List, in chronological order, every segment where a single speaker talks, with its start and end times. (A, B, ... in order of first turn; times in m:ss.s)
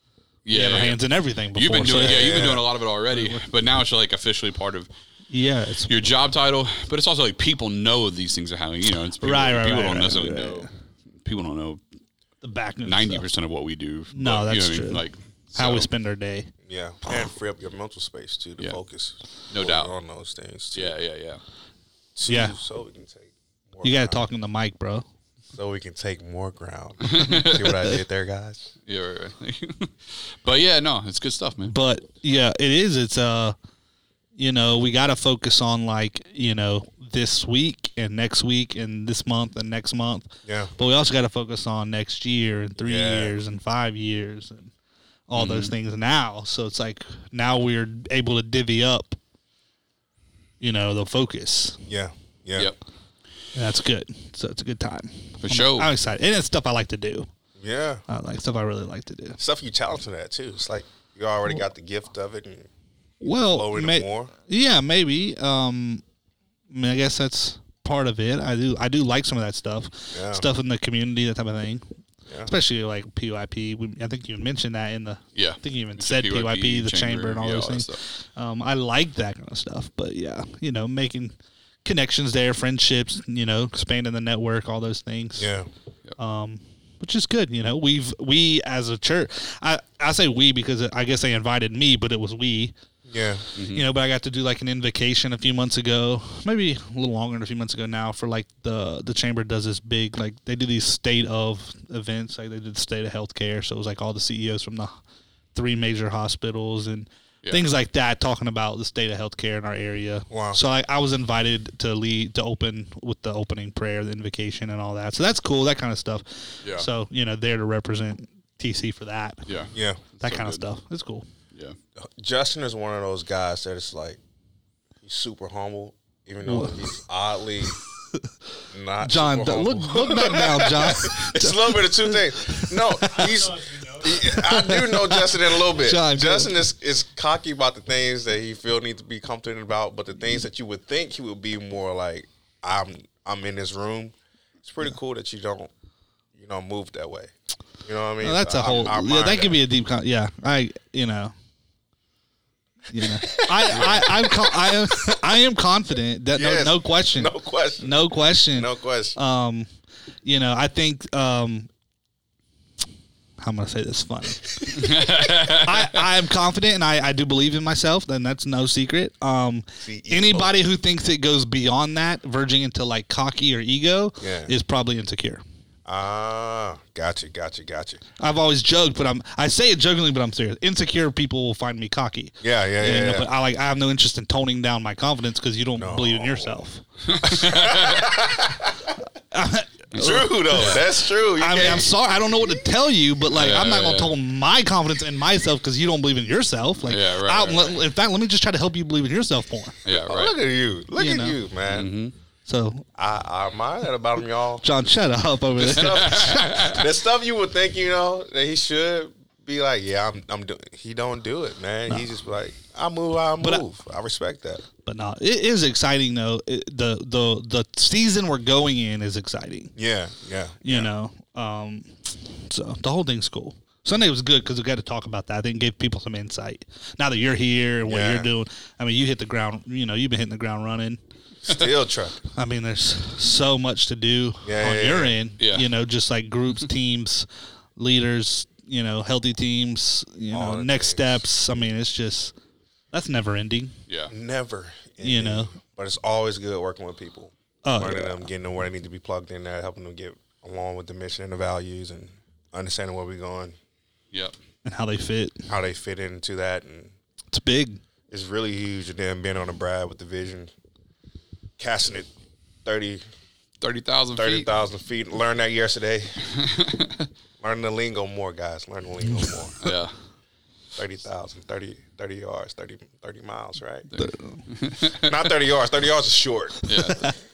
0:00.4-0:01.0 A
0:00.5-0:03.4 B
0:01.5-0:04.9 A
0:05.3-0:05.9 B
0:05.9-0:10.7 A
0:09.2-0:10.7 B
0:11.2-0:11.8 A
0:12.4-0:13.2 B
0:12.8-0:15.9 A
0:14.1-0:15.0 B
0:15.5-0:16.5 B
0:16.6-0:20.9 C
0:19.5-0:19.9 A
0:20.7-0:21.4 A
0:22.1-0:24.2 C
0:22.3-0:22.6 B
0:23.8-0:25.0 B
0:25.5-0:28.7 C
0:27.1-0:27.8 A
0:28.9-0:31.7 A
0:31.7-0:33.5 B
0:34.4-0:44.7 B
0:40.4-0:40.7 C
0:42.8-0:43.3 C
0:45.3-0:49.2 B
0:45.3-0:45.7 A
0:50.6-0:51.8 B
0:51.9-0:52.7 C
0:53.5-0:57.3 B
0:55.4-0:55.9 A
0:57.6-0:58.0 C
0:58.1-0:59.4 B
0:59.4-1:02.7 C
1:03.2-1:06.0 B
1:03.2-1:04.3 C
1:06.7-1:11.8 B
1:10.1-1:10.4 C
1:12.4-1:25.5 B
1:15.3-1:18.0 A
1:25.4-1:25.7 C
1:26.2-1:32.7 B
1:33.1-1:33.4 C
1:33.6-1:33.8 A
1:33.7-1:45.0 B
1:45.5-1:59.4 B
1:50.3-1:50.6 C
1:59.4-2:00.6 A
1:59.7-2:00.0 C
2:00.2-2:01.2 B
2:02.0-2:04.2 C
2:05.0-2:07.8 C
2:06.4-2:06.9 B
2:08.7-2:25.7 C
2:09.0-2:16.6 B
2:26.3-2:29.6 C
2:28.2-2:31.3 B
2:32.9-2:39.7 B
2:33.0-2:35.1 C
2:36.3-2:39.2 C
2:40.2-2:41.7 B
2:43.4-2:45.0 B
2:44.7-2:46.0 A
2:45.6-2:55.4 B
2:49.8-2:50.5 C
2:54.2-2:54.5 C
2:55.8-2:58.0 C
2:58.2-3:06.8 B
3:02.4-3:03.3 C
3:05.8-3:06.6 C
3:07.1-3:08.1 A
3:07.2-3:09.0 C
3:09.3-3:10.8 B
3:09.9-3:10.8 A
3:09.9-3:12.6 C
3:11.4-3:19.8 B
3:13.3-3:14.1 A
3:16.8-3:17.7 A
3:19.8-3:20.3 A
3:19.9-3:21.9 C
3:21.0-3:21.4 B
3:21.7-3:22.1 A
3:22.4-3:22.8 B
3:22.9-3:24.6 C
3:24.6-3:26.7 B
3:25.6-3:34.6 C
3:25.6-3:26.8 A
3:34.8-3:39.7 B
3:39.8-3:40.9 C
3:40.6-3:51.0 B
3:47.8-3:48.3 C
3:51.4-3:52.2 C
3:52.3-3:57.2 B
3:54.4-3:55.2 C
3:55.4-3:55.7 A
3:57.8-4:02.3 B
4:00.3-4:01.2 C
4:02.9-4:03.7 B
4:03.9-4:04.1 A
4:04.1-4:13.5 C
4:05.0-4:05.5 B
4:07.6-4:08.2 B
4:14.1-4:14.4 A
4:14.6-4:15.5 B
4:15.5-4:16.9 C
4:17.3-4:17.8 B
4:18.1-4:20.5 C
4:21.6-4:22.1 C
4:22.6-4:23.0 C
4:23.6-4:24.5 A
4:24.1-4:26.2 C
4:26.4-4:26.9 A
4:27.4-4:29.6 C
4:29.6-4:29.9 A
4:30.8-4:34.0 C
4:33.9-4:35.2 A
4:34.0-4:34.4 B
4:34.8-4:37.1 C
4:36.7-4:37.0 A
4:36.8-4:37.1 B